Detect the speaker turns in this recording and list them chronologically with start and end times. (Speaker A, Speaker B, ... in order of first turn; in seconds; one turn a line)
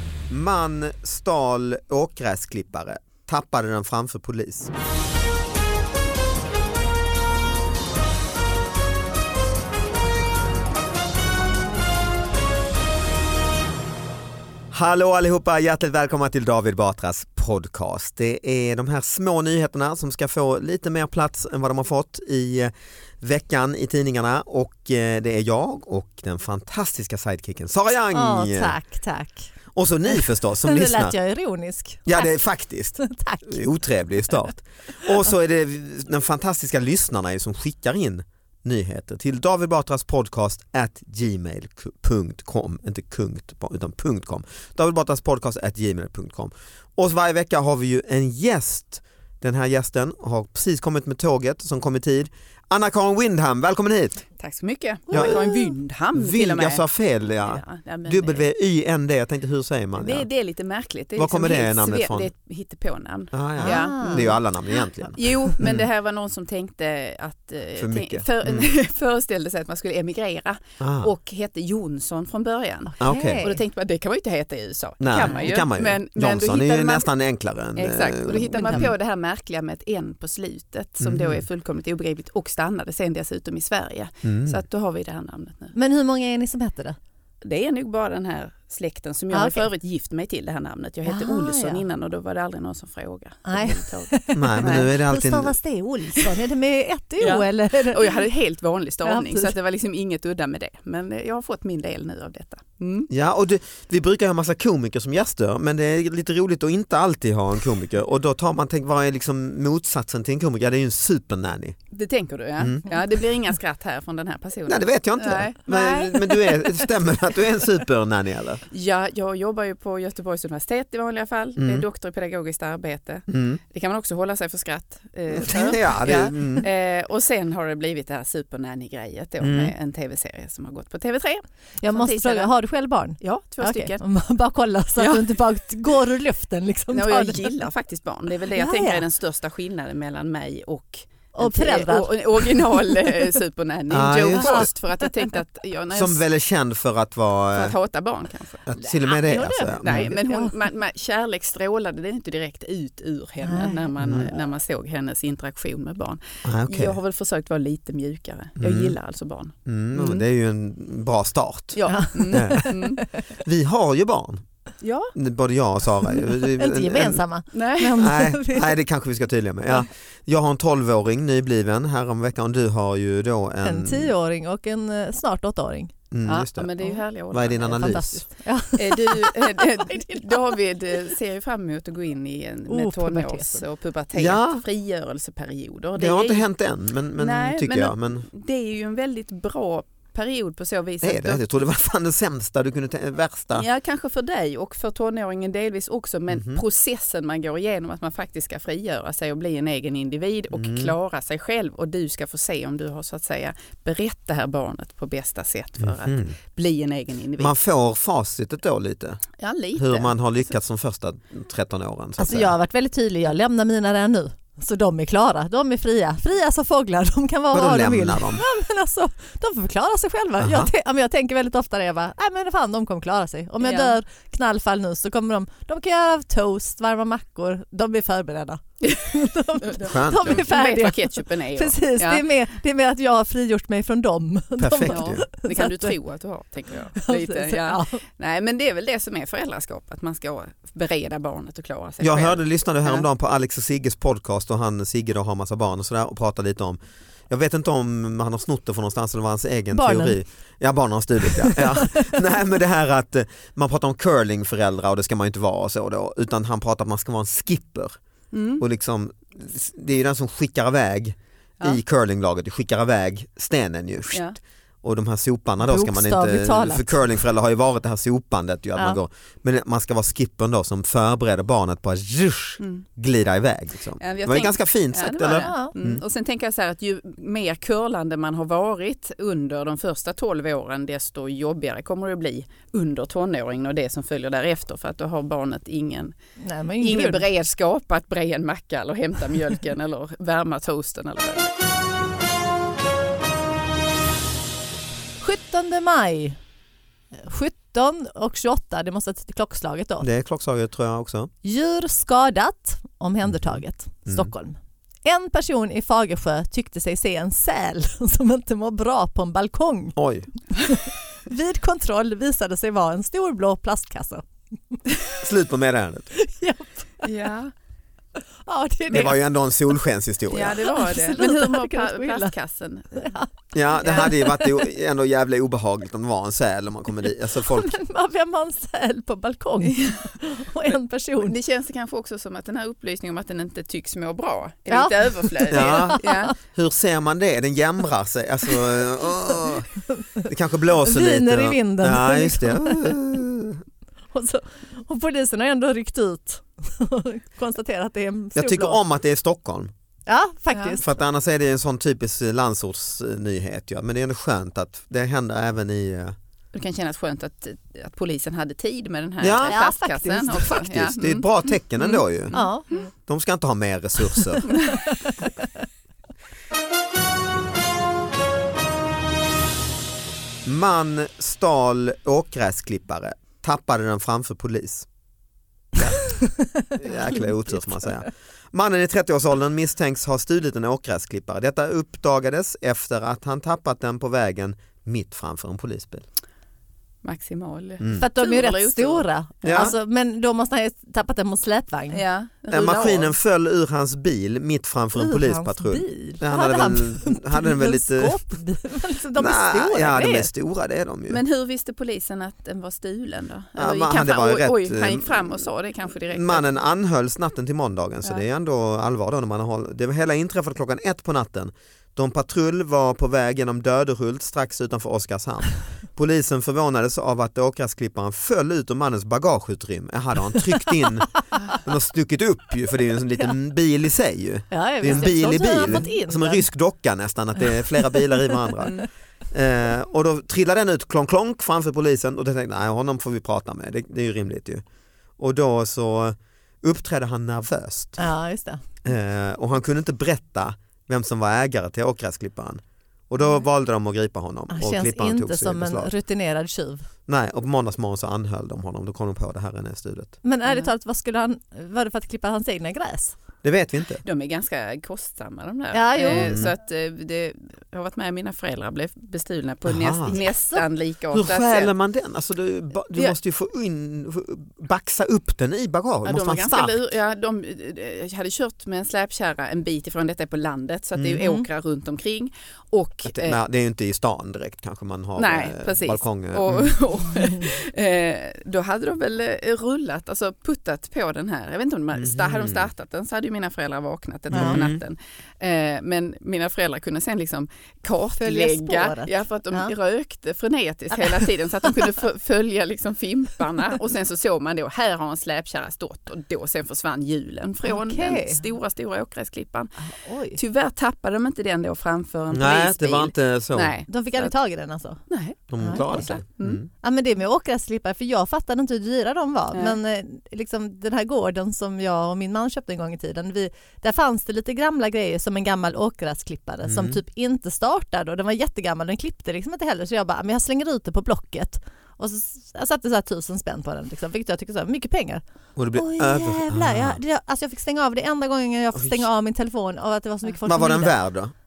Speaker A: 0.3-4.7
Speaker A: 14.7-28.8
Speaker B: 28.1-29.5
Speaker A: 29.7-31.1
Speaker B: 30.1-32.3
Speaker A: 32.0-54.2
Speaker B: 33.0-33.7
Speaker C: 54.4-58.4
Speaker B: 55.1-55.7
Speaker A: 55.1-55.5
Speaker A: 56.1-60.3
Speaker C: 60.0-64.4
Speaker A: 61.1-62.3
Speaker A: 63.3-65.9
Speaker B: 63.6-64.3
Speaker C: 65.1-77.1
Speaker A: 67.8-68.7
Speaker A: 70.8-71.1
Speaker B: 72.8-73.6
Speaker A: 73.0-73.4
Speaker A: 75.0-78.9
Speaker C: 77.8-85.7
Speaker B: 78.5-78.9
Speaker A: 81.0-81.4
Speaker A: 84.2-84.6
Speaker B: 85.7-87.0
Speaker C: 87.4-94.9
Speaker B: 89.3-89.7
Speaker B: 91.0-91.8
Speaker B: 93.5-98.2
Speaker A: 94.3-95.5
Speaker C: 97.2-103.1
Speaker B: 99.0-99.5
Speaker A: 103.1-111.8
Speaker C: 111.9-116.9
Speaker A: 112.6-112.9
Speaker A: 114.7-118.6
Speaker C: 118.7-132.5
Speaker A: 121.6-121.8
Speaker A: 123.3-123.6
Speaker A: 125.3-126.7
Speaker A: 129.4-129.7
Speaker B: 131.8-137.6
Speaker C: 133.2-134.0
Speaker C: 135.0-135.3
Speaker C: 136.9-146.2
Speaker B: 138.5-139.0
Speaker B: 141.3-143.1
Speaker A: 143.9-144.7
Speaker B: 144.4-145.1
Speaker A: 145.9-147.8
Speaker C: 147.5-160.2
Speaker A: 148.7-150.1
Speaker B: 148.8-150.5
Speaker B: 153.4-153.9
Speaker A: 154.0-154.3
Speaker A: 156.4-156.9
Speaker A: 158.6-158.9
Speaker A: 159.7-162.7
Speaker C: 161.7-163.2
Speaker B: 161.9-162.8
Speaker A: 163.4-164.4
Speaker C: 164.8-165.1
Speaker A: 165.1-167.2
Speaker B: 166.2-168.7
Speaker C: 167.5-168.1
Speaker A: 167.9-174.1
Speaker B: 173.6-175.9
Speaker A: 176.1-176.7
Speaker C: 176.3-178.0
Speaker A: 177.3-178.2
Speaker B: 177.6-180.5
Speaker C: 178.8-186.5
Speaker B: 182.7-183.6
Speaker A: 184.1-184.6
Speaker A: 185.9-188.2
Speaker C: 187.2-191.4
Speaker A: 191.0-193.7
Speaker C: 193.5-207.5
Speaker A: 196.3-196.6
Speaker A: 200.5-200.9
Speaker A: 205.8-206.3
Speaker A: 207.4-209.2
Speaker C: 209.4-210.1
Speaker A: 209.8-212.5
Speaker B: 212.2-235.9
Speaker A: 217.5-218.4
Speaker A: 220.4-220.7
Speaker C: 223.6-224.0
Speaker C: 228.8-229.1
Speaker C: 229.6-232.2
Speaker A: 229.8-230.4
Speaker A: 234.6-235.2
Speaker C: 234.9-243.1
Speaker B: 236.9-238.0
Speaker A: 242.0-246.8
Speaker A: 247.3-258.0
Speaker B: 249.7-250.2
Speaker B: 251.3-252.2
Speaker C: 258.3-258.6
Speaker A: 258.6-276.0
Speaker C: 264.1-264.4
Speaker B: 265.6-267.0
Speaker C: 274.0-286.1
Speaker B: 275.4-275.7
Speaker B: 286.4-287.2
Speaker C: 286.8-291.5
Speaker B: 295.2-296.4
Speaker B: 297.1-300.1
Speaker A: 300.0-301.3
Speaker B: 301.4-309.9
Speaker A: 303.4-304.3
Speaker A: 309.9-310.3
Speaker B: 310.6-314.8
Speaker A: 315.2-316.1
Speaker B: 316.1-317.1
Speaker C: 317.0-317.5
Speaker B: 318.4-319.2
Speaker A: 318.9-320.6
Speaker C: 320.3-323.1
Speaker B: 320.6-322.3
Speaker B: 322.9-323.3
Speaker A: 323.5-327.7
Speaker B: 323.8-324.6
Speaker C: 323.8-324.1
Speaker B: 327.4-331.4
Speaker C: 331.2-336.4
Speaker B: 334.7-336.3
Speaker A: 335.5-339.7
Speaker B: 339.9-340.2
Speaker A: 340.2-343.6
Speaker B: 340.8-342.9
Speaker B: 344.1-348.8
Speaker A: 348.3-349.7
Speaker B: 350.1-350.9
Speaker A: 350.8-356.1
Speaker C: 356.5-362.9
Speaker A: 359.2-359.6
Speaker B: 359.5-360.6
Speaker A: 360.3-362.3
Speaker B: 362.3-362.8
Speaker A: 363.1-364.5
Speaker C: 364.4-364.8
Speaker B: 364.7-365.3
Speaker A: 370.4-374.9
Speaker B: 376.0-377.9
Speaker A: 376.7-386.0
Speaker C: 387.0-389.7
Speaker A: 387.8-388.1
Speaker B: 387.9-392.0
Speaker A: 389.4-389.7
Speaker C: 391.9-393.1
Speaker A: 392.5-398.2
Speaker B: 394.9-400.3
Speaker A: 399.1-401.2
Speaker C: 401.1-406.5
Speaker A: 403.6-405.5
Speaker A: 406.1-434.6
Speaker B: 424.5-426.4
Speaker B: 427.9-428.3
Speaker A: 435.2-438.0
Speaker B: 438.0-438.6
Speaker A: 438.8-445.9
Speaker B: 444.5-446.9
Speaker A: 447.1-450.1
Speaker B: 450.2-453.2
Speaker A: 453.4-454.0
Speaker C: 454.0-461.7
Speaker B: 455.7-456.4
Speaker A: 456.1-456.5
Speaker A: 459.6-460.2
Speaker B: 460.1-460.6
Speaker A: 461.1-466.8
Speaker C: 466.0-473.4
Speaker A: 470.9-471.2
Speaker B: 471.2-471.4
Speaker A: 473.1-476.8
Speaker C: 475.2-499.7
Speaker A: 481.9-482.7
Speaker A: 484.3-484.8
Speaker B: 484.3-484.6
Speaker B: 488.1-489.7
Speaker B: 497.6-498.4
Speaker B: 499.8-500.4
Speaker C: 500.3-504.3
Speaker A: 502.3-503.7
Speaker B: 503.9-505.0
Speaker C: 505.1-506.6
Speaker A: 505.5-506.6
Speaker B: 505.6-506.1
Speaker B: 506.8-531.0
Speaker A: 516.6-517.0
Speaker A: 525.5-527.0
Speaker A: 528.7-529.0
Speaker A: 530.4-531.3